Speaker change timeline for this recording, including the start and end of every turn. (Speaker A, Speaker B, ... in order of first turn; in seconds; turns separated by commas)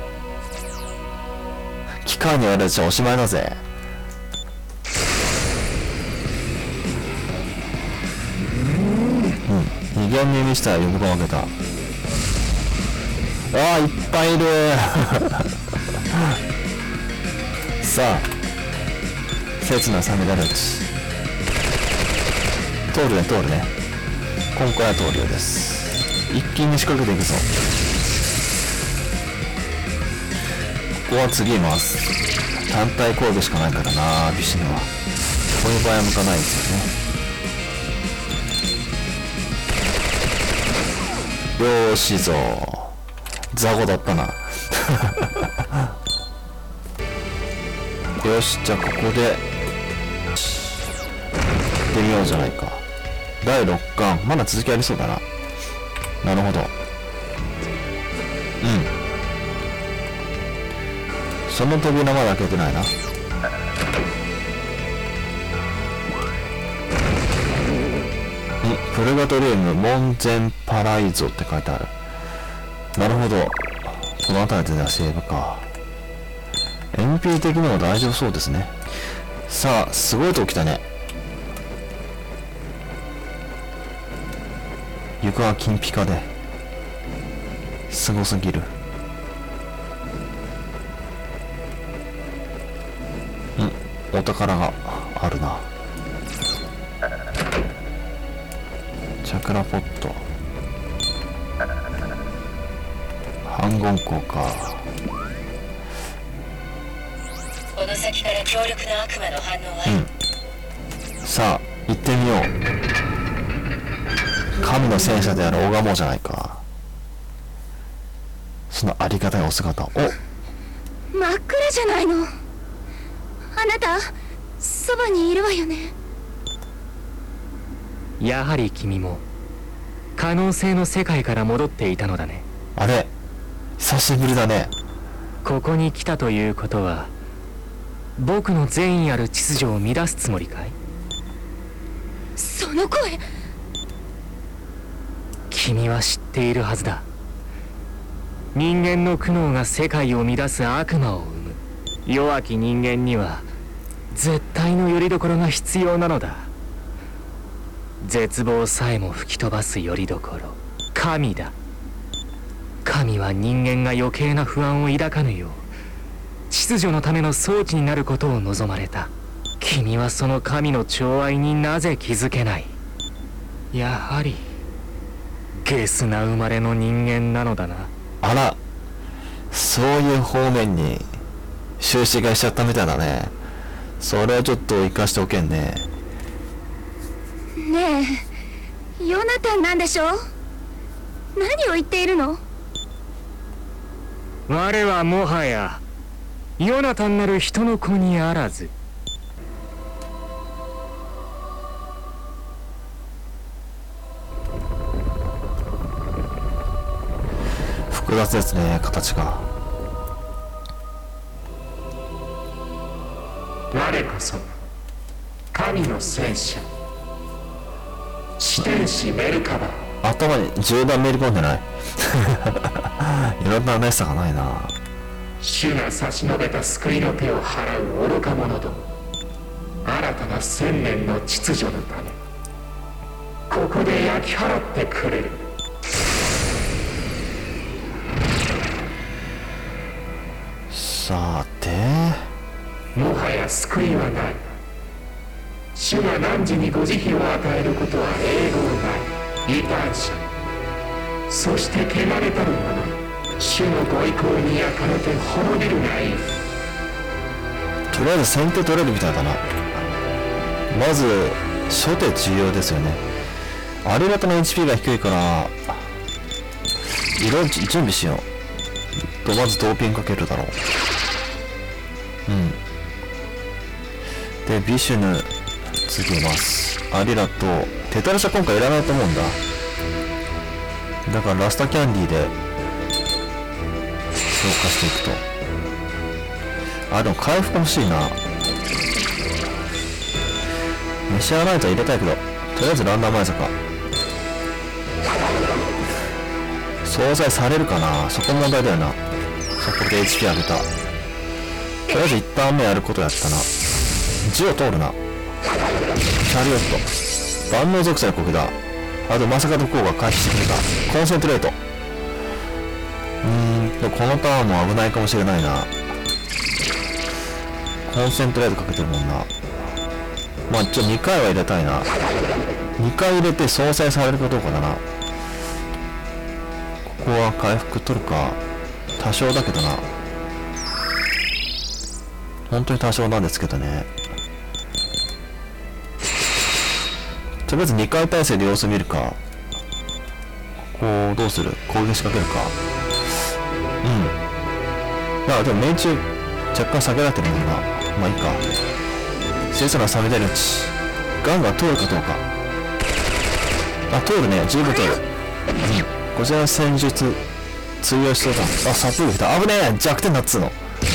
Speaker A: 2.0-3.6, Speaker A: 9.4-11.5, Speaker A: 13.5-15.4, Speaker A: 17.8-18.3, Speaker A: 19.6-20.9, Speaker A: 22.9-23.7, Speaker A: 24.5-27.5, Speaker A: 31.1-32.1, Speaker A: 32.7-34.9, Speaker A: 35.5-36.9, Speaker A: 41.6-42.9, Speaker A: 43.5-45.5, Speaker A: 48.2-49.4, Speaker A: 51.9-52.8, Speaker A: 53.4-55.2, Speaker A: 56.2-56.7, Speaker A: 58.6-58.9, Speaker A: 61.5-62.9, Speaker A: 68.6-71.9, Speaker A: 72.9-75.7, Speaker A: 76.9-78.7, Speaker A: 79.5-80.8, Speaker A: 85.2-86.3, Speaker A: 87.9-88.7, Speaker A: 93.6-95.7, Speaker A: 99.2-100.2, Speaker A: 103.4-104.8, Speaker B: 107.7-110.0, Speaker A: 111.2-112.5, Speaker A: 114.6-116.6, Speaker A: 118.7-120.1, Speaker C: 121.1-122.3, Speaker C: 123.5-125.9, Speaker D: 128.2-129.2, Speaker D: 130.2-132.4, Speaker A: 132.8-133.1, Speaker A: 133.8-134.7, Speaker D: 135.4-137.1, Speaker D: 138.2-140.7, Speaker C: 142.4-143.2, Speaker D: 145.5-147.1, Speaker D: 148.5-153.5, Speaker D: 154.1-156.5, Speaker D: 158.0-161.5, Speaker D: 162.8-165.7, Speaker D: 166.5-172.7, Speaker D: 173.7-174.5, Speaker D: 175.6-177.9, Speaker A: 178.2-178.6, Speaker A: 179.5-181.2, Speaker A: 181.8-183.3, Speaker A: 184.0-185.9, Speaker C: 187.6-188.3, Speaker C: 189.0-190.2, Speaker C: 191.3-192.4, Speaker D: 194.5-195.8, Speaker D: 196.6-198.7, Speaker A: 207.9-209.5, Speaker E: 213.7-214.5, Speaker E: 215.5-216.7, Speaker E: 218.4-219.8, Speaker A: 220.0-224.8, Speaker E: 225.4-228.8, Speaker E: 229.8-232.2, Speaker E: 233.5-235.4, Speaker A: 240.7-242.3, Speaker E: 242.9-244.4, Speaker E: 245.7-250.3, Speaker E: 251.3-256.3, Speaker A: 257.9-259.4, Speaker A: 260.7-263.0, Speaker A: 263.8-265.9, Speaker A: 267.2-268.2, Speaker A: 269.2-270.6, Speaker A: 272.3-272.6, Speaker A: 274.4-275.3, Speaker A: 275.8-279.4, Speaker A: 281.0-282.3, Speaker A: 284.4-285.2, Speaker A: 286.9-288.2, Speaker A: 291.1-293.5, Speaker A: 296.8-299.0, Speaker A: 299.6-300.7, Speaker A: 301.9-303.5, Speaker A: 304.2-305.0, Speaker A: 306.2-306.9, Speaker A: 307.5-308.6, Speaker A: 309.1-311.6, Speaker A: 313.2-315.7, Speaker A: 317.9-319.3, Speaker A: 320.5-321.9, Speaker A: 322.8-324.8, Speaker A: 326.8-328.4, Speaker A: 329.0-329.9, Speaker A: 332.5-333.9, Speaker A: 337.5-339.2, Speaker A: 340.7-342.5, Speaker A: 343.8-344.1, Speaker A: 345.2-348.4, Speaker A: 349.5-352.2, Speaker A: 353.9-355.0, Speaker A: 355.6-357.2, Speaker A: 357.8-360.6